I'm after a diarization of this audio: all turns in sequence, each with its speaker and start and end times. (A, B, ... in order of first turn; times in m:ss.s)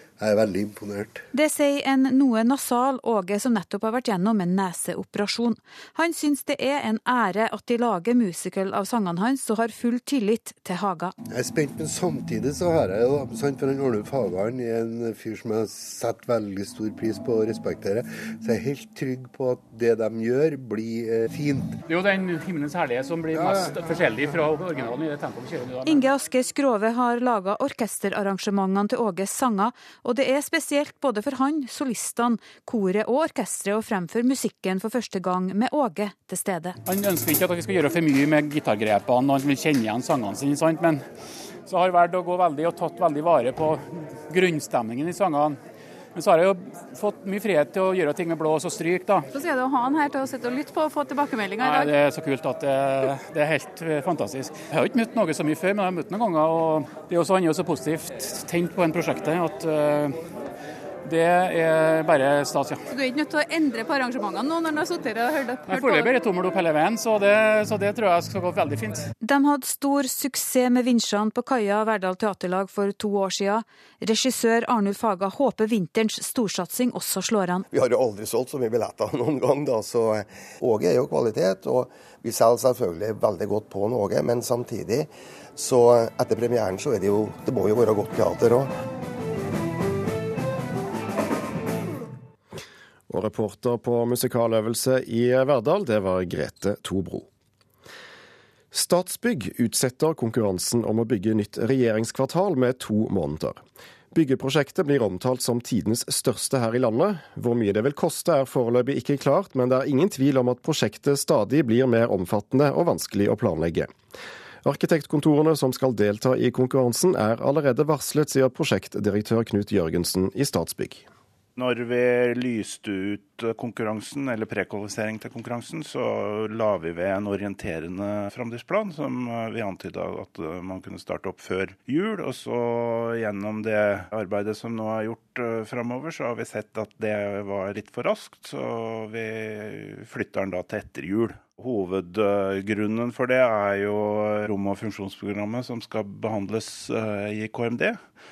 0:00.2-0:01.2 A
0:01.3-0:11.1 B
0:11.3-0:21.8 A
0:21.9-0:26.1 C
0:23.3-0:24.0 A
0:25.8-0:36.8 B
0:36.8-0:41.0 C
0:41.7-0:45.6 C
0:46.1-0:49.3 C
0:49.3-0:51.9 D
0:51.6-1:00.2 C
1:01.0-1:02.9 C
1:02.9-1:06.1 D
1:05.7-1:09.1 C
1:09.2-1:17.6 B
1:17.7-1:28.7 E
1:33.1-1:37.3 F
1:38.7-1:43.6 F
1:44.1-1:53.9 F
1:54.6-2:01.1 F
2:01.6-2:28.0 G